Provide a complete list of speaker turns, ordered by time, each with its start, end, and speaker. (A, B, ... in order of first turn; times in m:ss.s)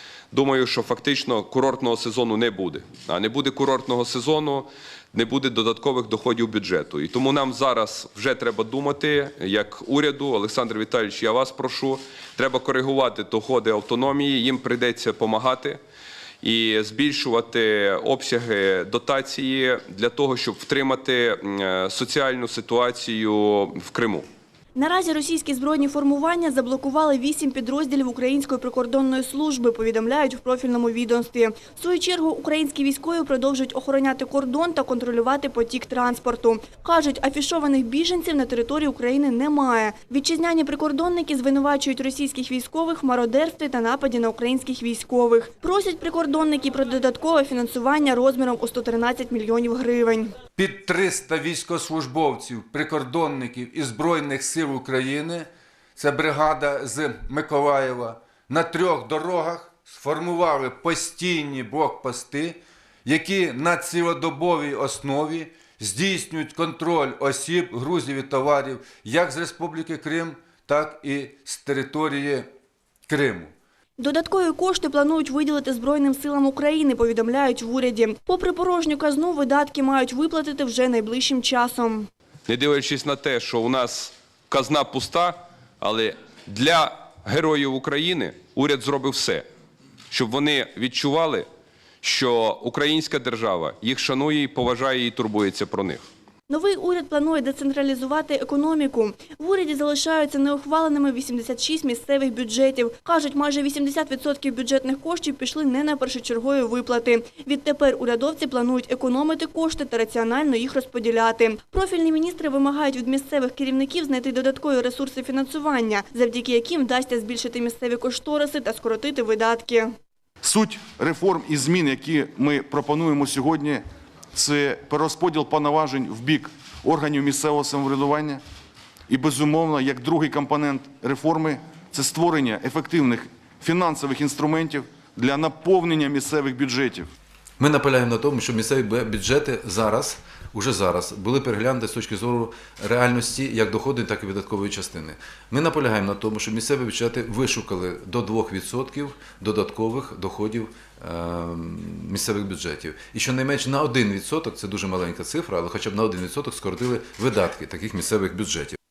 0:00.3-0:15.8 A
0:16.4-0:24.2 A
0:24.8-0:50.3 B
0:50.6-1:12.5 C
1:13.1-1:13.5 C
1:14.0-1:22.1 B
1:22.5-1:29.4 A
1:30.1-1:31.5 A
1:32.0-1:36.0 A
1:36.5-1:59.9 B
2:00.4-2:08.4 D
2:09.1-2:17.1 D
2:17.6-2:38.8 E